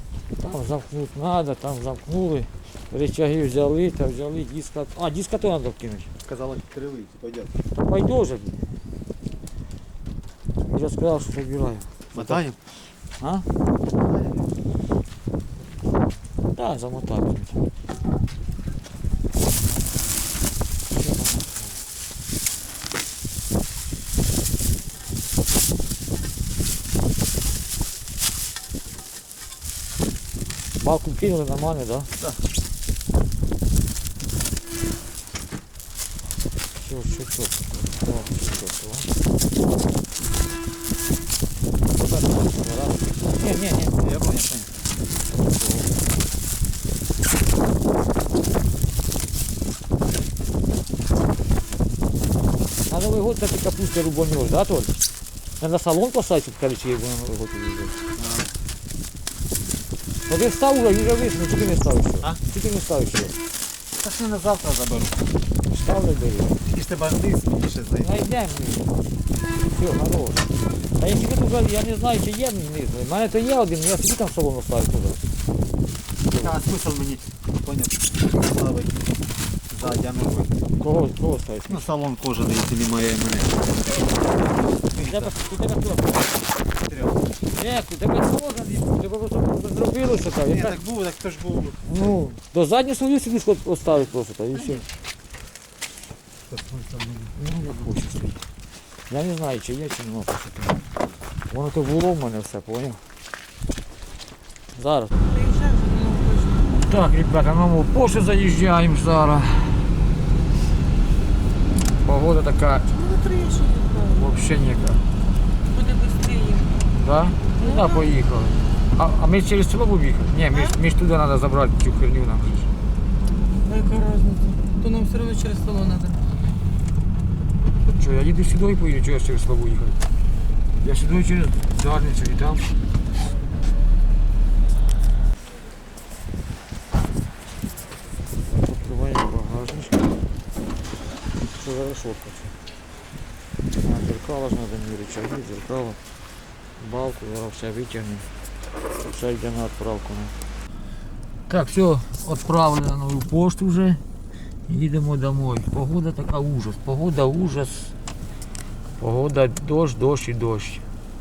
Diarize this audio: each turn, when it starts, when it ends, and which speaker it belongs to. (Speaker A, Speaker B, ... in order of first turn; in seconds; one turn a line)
Speaker A: 0.4-6.1
Speaker B: 6.2-7.5
Speaker A: 7.8-8.7
Speaker A: 10.7-12.4
Speaker B: 12.1-12.6
Speaker A: 13.2-13.5
Speaker B: 13.9-14.6
Speaker A: 16.5-17.6
Speaker A: 20.9-21.8
Speaker A: 30.8-32.1
Speaker A: 36.8-39.1
Speaker A: 41.9-44.0
Speaker B: 44.0-44.8
Speaker A: 45.4-45.9
Speaker A: 52.9-55.0
Speaker A: 55.6-58.0
Speaker B: 58.1-58.5
Speaker A: 60.3-63.4
Speaker B: 64.0-65.3
Speaker A: 65.7-66.6
Speaker B: 66.7-68.1
Speaker A: 68.0-68.9
Speaker A: 69.7-75.2
Speaker B: 76.3-79.2
Speaker A: 76.3-76.6
Speaker B: 79.7-80.6
Speaker A: 80.8-81.9
Speaker B: 81.7-85.4
Speaker A: 85.0-86.3
Speaker B: 86.8-87.4
Speaker A: 87.5-90.8
Speaker B: 90.4-91.8
Speaker A: 91.8-94.8
Speaker B: 94.5-94.8
Speaker B: 96.5-97.3
Speaker A: 97.4-98.4
Speaker A: 99.1-100.8
Speaker A: 101.5-103.0
Speaker A: 104.8-105.1
Speaker C: 105.3-106.7
Speaker A: 106.7-109.9
Speaker A: 112.0-112.9
Speaker C: 112.9-114.2
Speaker A: 114.1-115.0
Speaker C: 115.7-116.8
Speaker A: 116.9-122.7
Speaker C: 117.6-118.1
Speaker C: 123.6-126.2
Speaker A: 127.8-130.0
Speaker A: 130.8-132.7
Speaker A: 138.5-140.2
Speaker A: 141.4-142.5
Speaker A: 143.8-146.0
Speaker A: 146.8-148.3
Speaker A: 149.0-150.3
Speaker A: 151.5-154.0
Speaker A: 154.7-157.9
Speaker A: 159.0-160.8